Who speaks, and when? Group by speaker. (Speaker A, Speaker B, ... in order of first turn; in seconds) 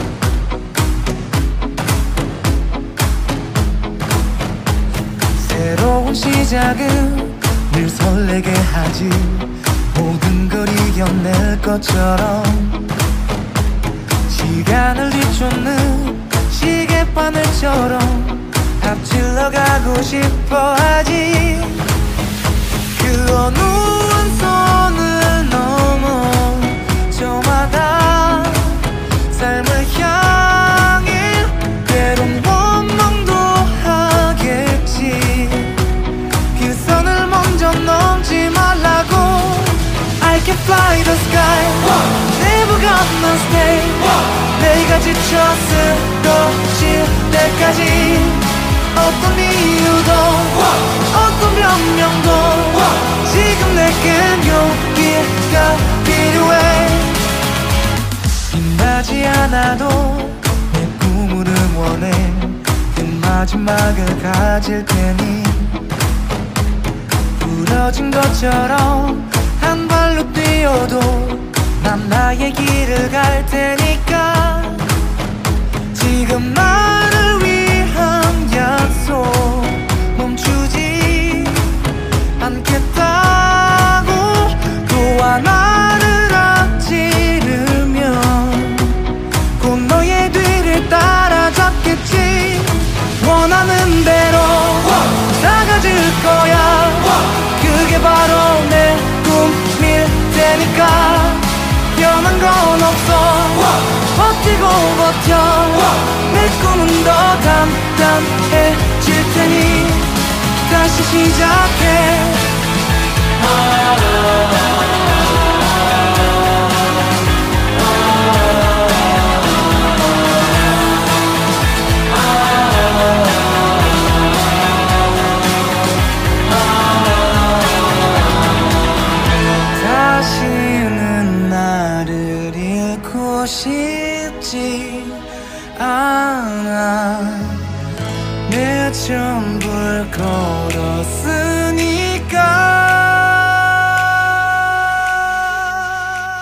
Speaker A: 5.4-12.9, 14.3-21.8, 22.9-35.8, 36.5-57.2, 58.5-65.8, 67.4-74.9, 75.9-81.8, 82.4-89.0, 89.6-112.5, 129.7-137.6, 138.5-144.0